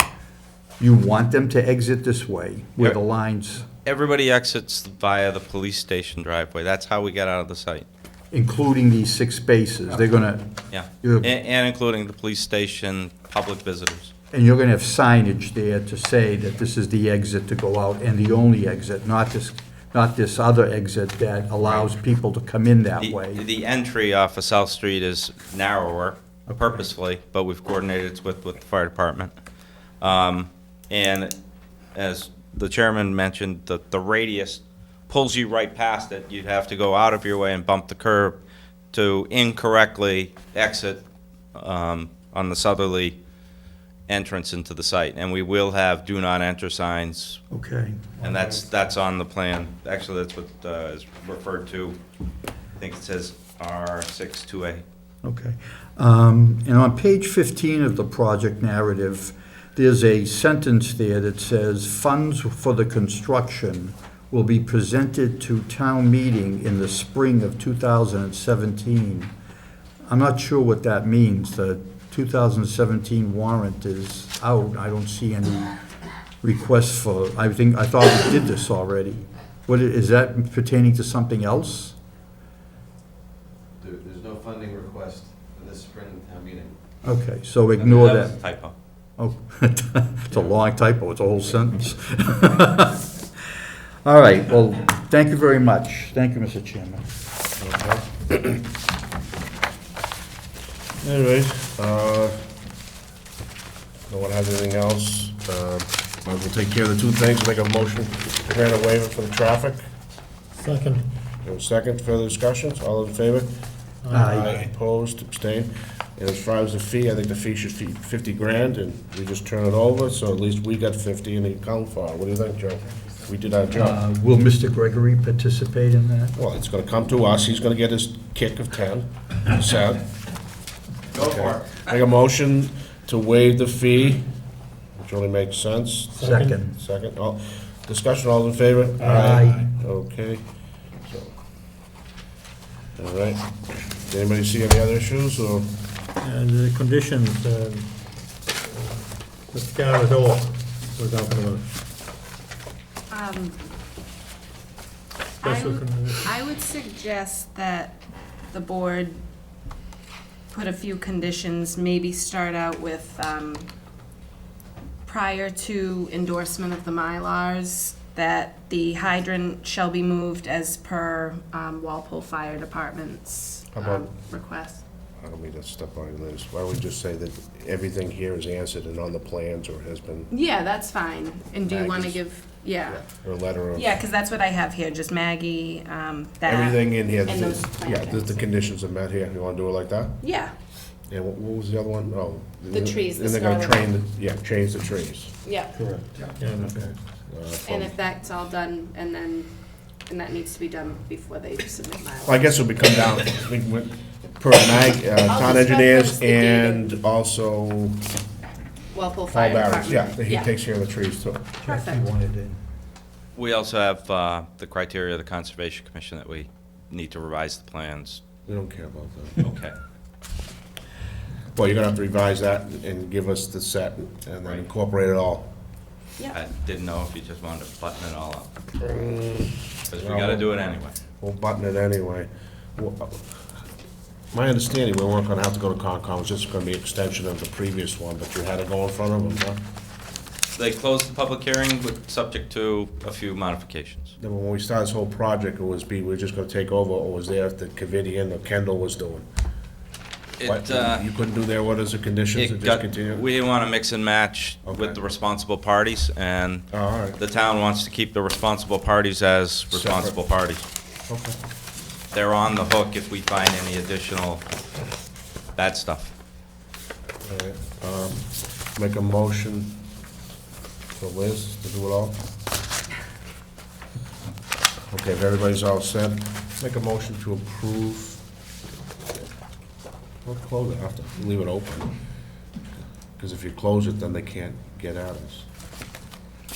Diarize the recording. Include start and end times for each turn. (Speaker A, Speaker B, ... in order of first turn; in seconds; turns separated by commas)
Speaker A: 0.8-3.7, Speaker B: 3.8-7.8, Speaker A: 8.3-11.3, Speaker B: 10.7-14.1, Speaker A: 14.3-23.4, Speaker B: 23.0-29.3, Speaker B: 30.0-31.3, Speaker B: 31.9-38.4, Speaker B: 38.9-41.0, Speaker B: 41.5-43.2, Speaker B: 44.1-47.4, Speaker A: 47.5-48.6, Speaker B: 48.2-52.0, Speaker B: 52.8-54.8, Speaker A: 55.2-69.3, Speaker A: 70.1-75.7, Speaker A: 76.4-82.0, Speaker C: 83.8-86.8, Speaker A: 87.0-88.3, Speaker B: 87.8-88.7, Speaker A: 89.2-93.0, Speaker A: 94.0-97.0, Speaker D: 97.6-98.2, Speaker D: 101.0-102.5, Speaker D: 104.1-109.8, Speaker E: 110.6-111.1, Speaker D: 111.4-113.5, Speaker E: 114.0-114.7, Speaker A: 114.1-114.6, Speaker D: 114.2-124.0, Speaker A: 123.7-126.3, Speaker D: 126.3-130.1, Speaker D: 131.1-134.3, Speaker B: 131.1-131.8, Speaker D: 134.9-140.4, Speaker E: 136.1-136.6, Speaker A: 136.2-136.7, Speaker A: 139.0-139.7, Speaker E: 139.1-139.5, Speaker D: 141.0-141.3, Speaker D: 142.9-145.7, Speaker E: 146.2-151.7, Speaker F: 153.1-153.6, Speaker F: 155.4-159.2, Speaker E: 155.4-156.4, Speaker F: 160.5-163.7, Speaker F: 165.1-174.8, Speaker D: 173.7-174.1, Speaker D: 175.2-180.3, Speaker F: 180.3-183.0, Speaker D: 181.6-182.2, Speaker D: 182.8-183.9, Speaker F: 183.7-188.4, Speaker D: 186.4-190.2, Speaker F: 190.2-190.5, Speaker D: 191.1-195.3, Speaker F: 192.7-193.9, Speaker F: 195.4-195.7, Speaker E: 195.8-196.9, Speaker D: 196.7-197.9, Speaker F: 197.7-199.5, Speaker F: 200.1-202.4, Speaker D: 202.2-208.0, Speaker F: 205.3-206.9, Speaker F: 208.9-210.5, Speaker D: 209.3-211.5, Speaker A: 211.6-212.6, Speaker F: 211.6-212.0, Speaker B: 213.3-218.2, Speaker D: 218.4-219.5, Speaker B: 219.4-219.7, Speaker D: 221.5-225.5, Speaker B: 226.3-228.5, Speaker D: 228.8-230.5, Speaker B: 229.9-230.9, Speaker D: 231.2-233.4, Speaker D: 234.3-239.6, Speaker B: 240.5-244.1, Speaker D: 244.2-249.3, Speaker B: 250.4-251.0, Speaker D: 250.4-253.2, Speaker B: 252.3-260.6, Speaker D: 254.7-255.0, Speaker D: 256.7-257.2, Speaker D: 259.7-260.1, Speaker D: 261.1-261.4, Speaker B: 262.1-264.4, Speaker B: 265.6-266.1, Speaker D: 267.2-269.8, Speaker D: 270.9-272.2, Speaker D: 274.9-278.2, Speaker D: 280.2-281.9, Speaker D: 283.2-285.5